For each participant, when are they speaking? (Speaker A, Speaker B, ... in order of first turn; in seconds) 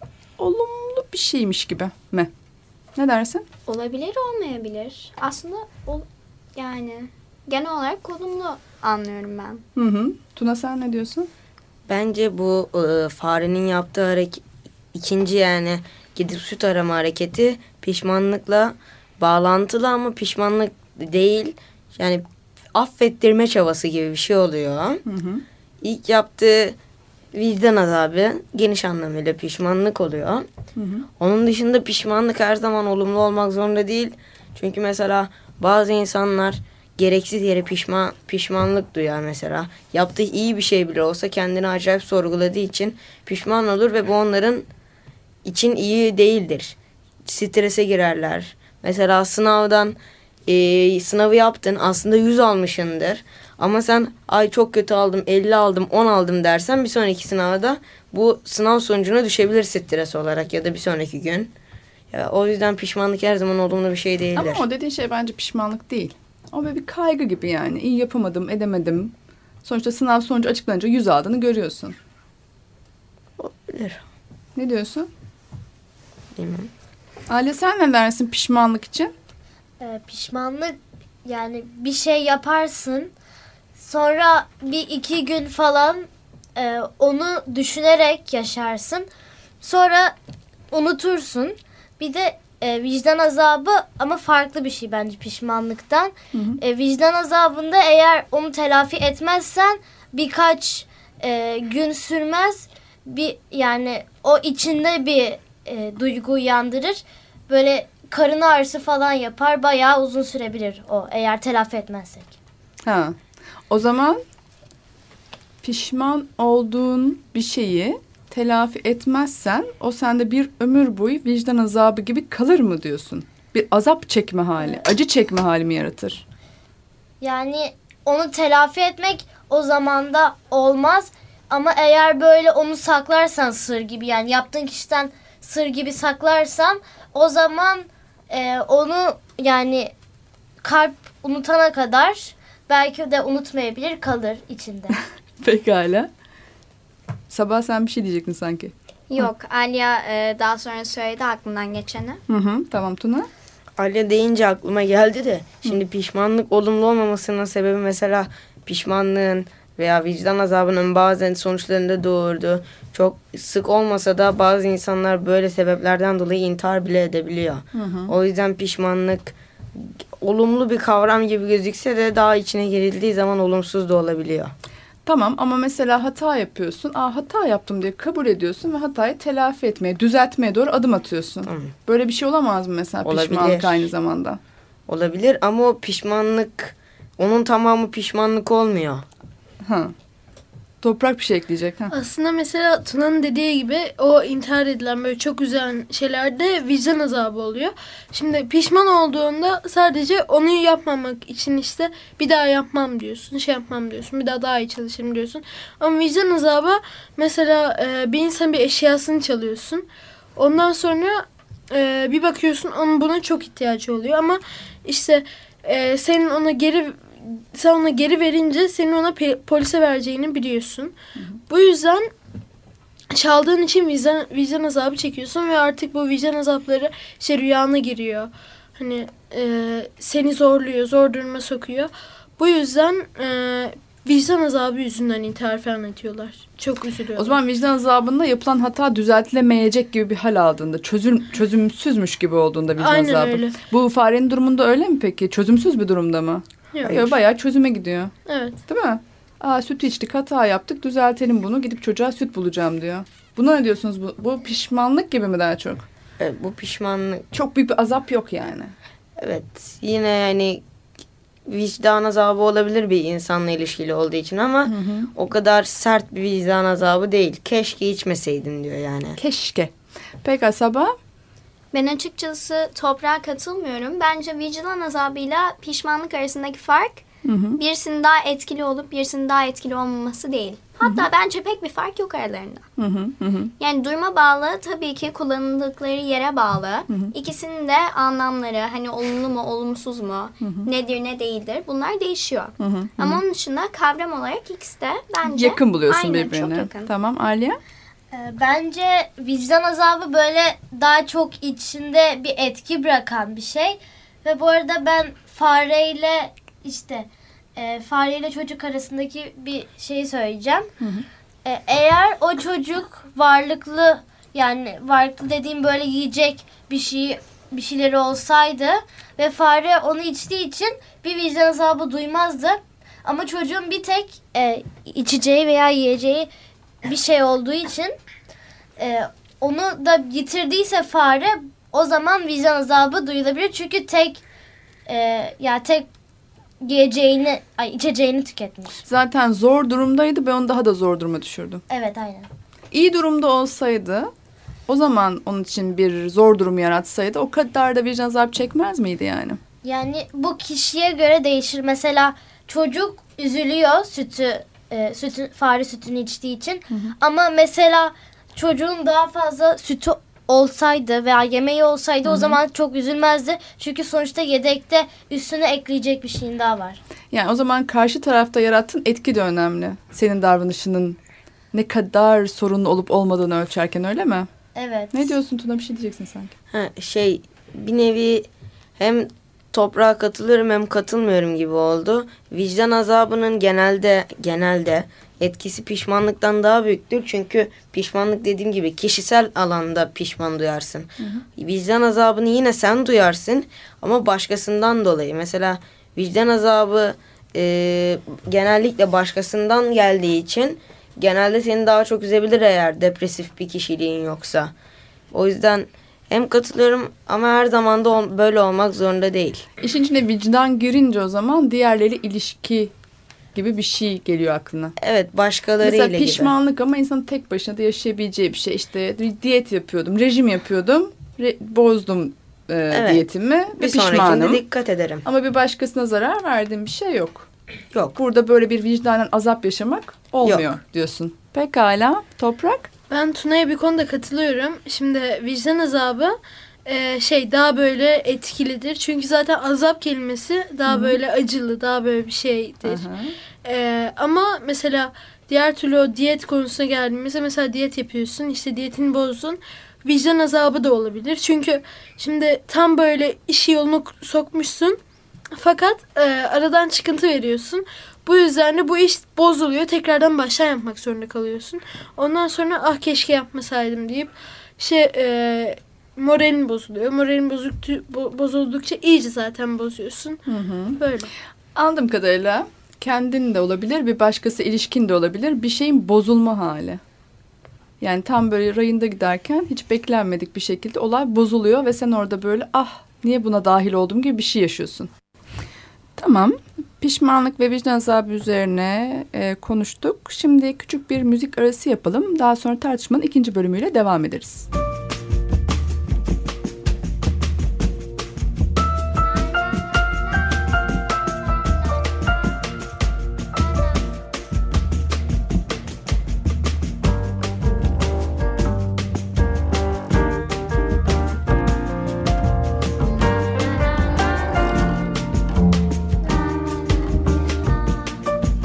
Speaker A: 0.4-2.3, 3.0-3.5, 9.8-11.3, 25.1-25.4, 30.8-31.1, 64.4-69.1, 69.6-72.0, 74.6-75.1, 77.3-79.1, 96.3-96.6, 112.8-113.2, 113.7-114.2, 115.6-126.2, 145.4-146.1, 147.3-149.3, 152.3-153.3, 167.8-168.1, 175.1-184.4, 189.6-189.9, 190.8-191.9, 237.2-248.1, 248.7-255.9, 257.3-258.7, 264.7-265.1, 269.2-269.7, 270.2-270.9, 277.2-277.6, 282.8-283.5, 290.4-290.7, 292.6-293.2, 295.3-297.6, 310.8-311.1, 338.8-341.6, 342.7-344.1, 344.7-349.4, 362.1-362.4, 367.1-371.0, 371.5-374.3, 374.9-376.3, 391.0-391.2, 409.6-412.7, 413.3-414.7, 415.6-424.4, 425.1-427.3, 427.9-432.7, 440.7-441.0, 442.6-443.1, 470.3-470.8, 471.6-476.8, 477.8-484.9, 486.0-494.5
Speaker B: 3.6-9.6, 149.1-152.2, 271.7-277.0, 277.6-282.7, 283.6-296.9
Speaker C: 11.9-14.4, 14.9-22.2, 22.7-25.0, 25.8-26.8, 27.3-30.4, 31.2-44.7, 45.4-50.0, 50.5-61.5, 62.1-64.6, 73.4-74.0, 76.4-76.7, 153.8-174.5, 181.5-181.7, 183.0-183.9, 184.9-189.0, 256.2-257.3, 259.2-260.6, 261.5-269.2, 376.5-378.3, 378.8-404.5, 405.1-409.5, 414.8-416.3, 422.7-423.0, 423.6-425.1, 430.2-430.5
Speaker D: 79.8-83.1, 83.8-89.1, 89.6-90.1, 90.7-112.3, 127.2-139.9, 140.6-145.0, 298.1-310.7, 311.4-326.3, 326.8-327.9, 328.8-334.2, 334.9-335.9, 336.6-338.8, 341.7-342.3, 349.6-366.8, 374.6-375.1
Speaker E: 191.9-220.9, 221.5-222.1, 223.1-237.4, 242.8-243.6, 246.7-247.0, 248.3-248.6, 432.9-442.9, 443.4-454.8, 455.3-470.2, 470.8-471.1